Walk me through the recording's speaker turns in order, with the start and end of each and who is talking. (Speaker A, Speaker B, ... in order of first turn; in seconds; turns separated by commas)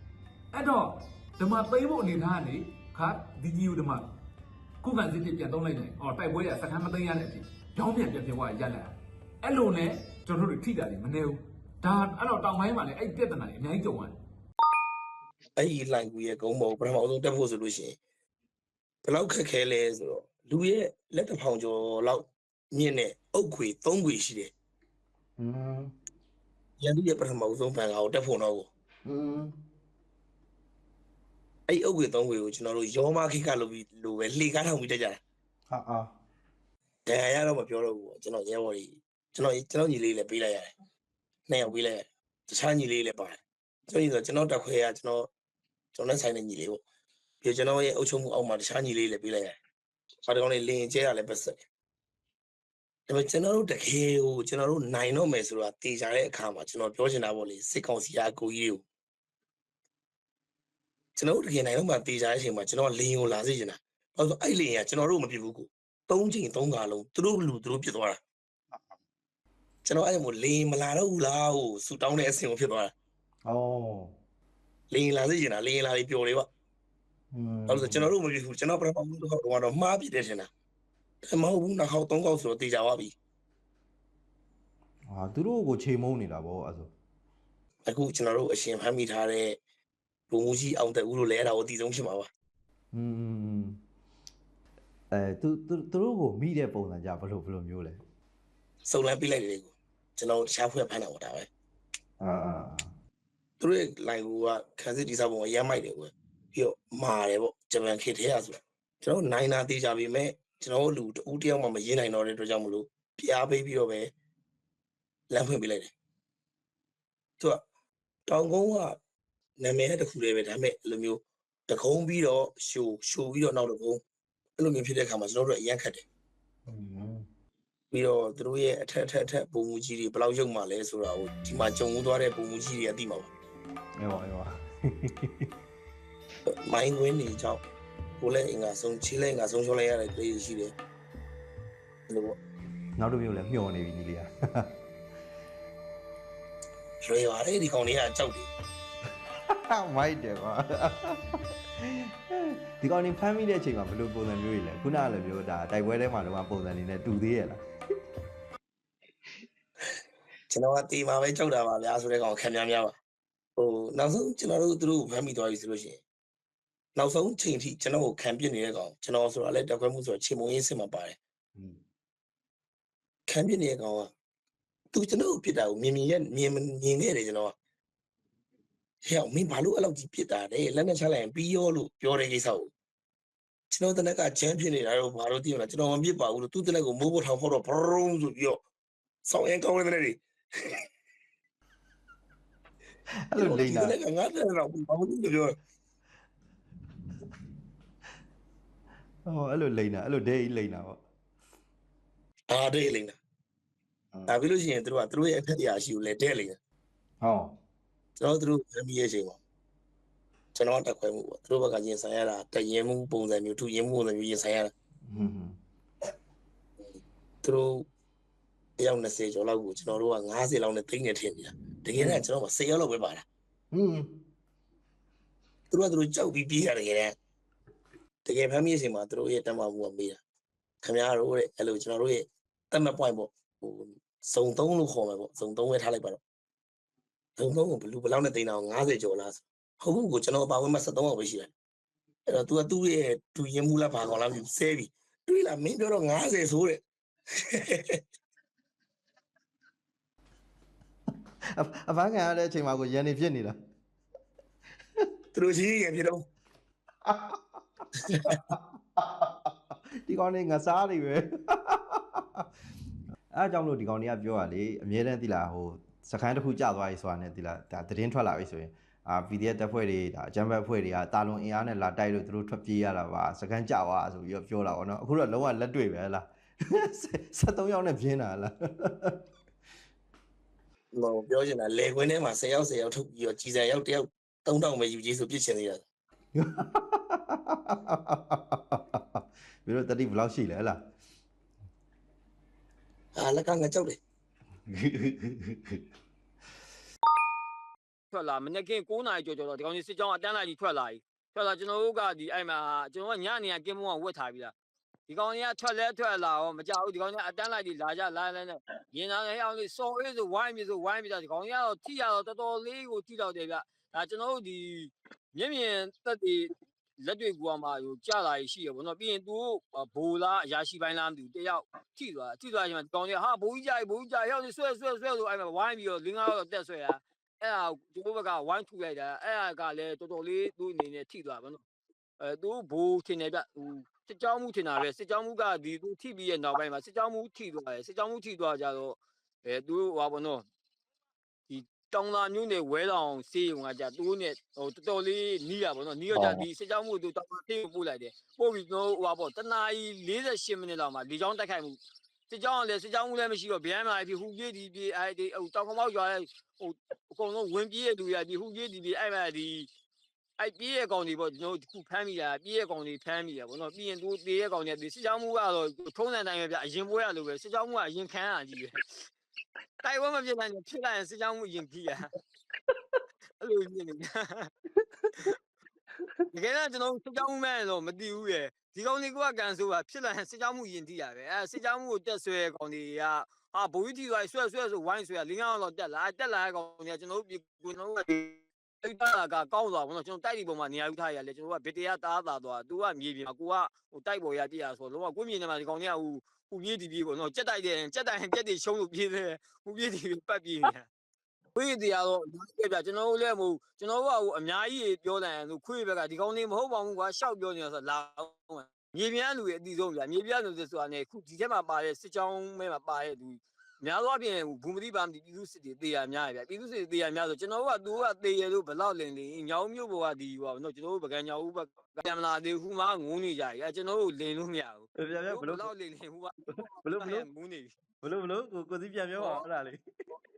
Speaker A: 0.5-4.1, Speaker A: 4.8-14.2, Speaker B: 15.6-18.0, Speaker B: 19.0-24.5, Speaker C: 25.4-25.9, Speaker B: 26.8-28.7, Speaker C: 29.0-29.5, Speaker B: 31.7-35.2, Speaker C: 35.7-36.1, Speaker B: 37.1-40.7, Speaker B: 41.5-45.3, Speaker B: 45.9-46.8, Speaker B: 47.4-49.5, Speaker B: 50.3-51.6, Speaker B: 53.1-58.8, Speaker B: 61.1-68.2, Speaker B: 69.8-72.9, Speaker C: 73.4-74.1, Speaker B: 74.9-76.5, Speaker C: 77.3-78.1, Speaker B: 77.7-80.5, Speaker B: 81.2-83.1, Speaker C: 85.1-86.9, Speaker B: 87.9-89.6, Speaker B: 90.3-92.3, Speaker C: 92.9-93.8, Speaker C: 95.1-98.0, Speaker B: 98.8-101.5, Speaker C: 102.2-102.9, Speaker B: 103.6-114.1, Speaker B: 115.3-115.9, Speaker B: 118.3-119.0, Speaker B: 119.6-124.0, Speaker B: 124.6-126.0, Speaker C: 126.7-127.2, Speaker B: 127.9-133.3, Speaker C: 134.0-135.4, Speaker B: 136.6-137.6, Speaker B: 138.2-140.7, Speaker B: 142.1-142.4, Speaker C: 143.0-144.7, Speaker B: 147.0-148.5, Speaker C: 149.5-157.6, Speaker B: 160.5-162.9, Speaker B: 163.6-166.0, Speaker B: 166.9-171.2, Speaker B: 173.3-174.1, Speaker B: 174.9-177.5, Speaker B: 179.1-182.7, Speaker B: 183.7-188.6, Speaker B: 189.3-190.2, Speaker C: 193.3-193.9, Speaker B: 193.4-195.5, Speaker C: 199.3-201.0, Speaker B: 202.5-203.2, Speaker B: 204.3-206.6, Speaker C: 207.2-207.5, Speaker B: 208.2-209.4, Speaker B: 210.5-214.7, Speaker C: 215.1-215.6, Speaker B: 217.4-217.9, Speaker B: 218.8-223.2, Speaker C: 222.0-222.2, Speaker C: 223.7-224.1, Speaker B: 225.7-227.1, Speaker B: 228.2-230.2, Speaker B: 230.8-236.2, Speaker B: 237.4-241.5, Speaker B: 242.3-246.8, Speaker B: 247.5-248.0, Speaker C: 251.5-253.5, Speaker B: 255.3-256.2, Speaker C: 257.0-257.6, Speaker C: 258.3-262.4, Speaker C: 263.3-279.2, Speaker B: 280.9-285.8, Speaker C: 286.4-290.8, Speaker B: 293.1-294.0, Speaker C: 294.7-295.8, Speaker D: 298.1-304.5, Speaker D: 305.1-331.6, Speaker D: 332.2-340.4, Speaker D: 341.5-359.7, Speaker C: 346.1-346.4, Speaker D: 360.4-368.8, Speaker D: 369.8-372.1, Speaker D: 373.4-374.5, Speaker D: 376.3-400.9, Speaker D: 401.6-427.8, Speaker C: 424.9-425.7, Speaker C: 426.5-427.3, Speaker C: 428.0-429.8, Speaker D: 429.1-429.5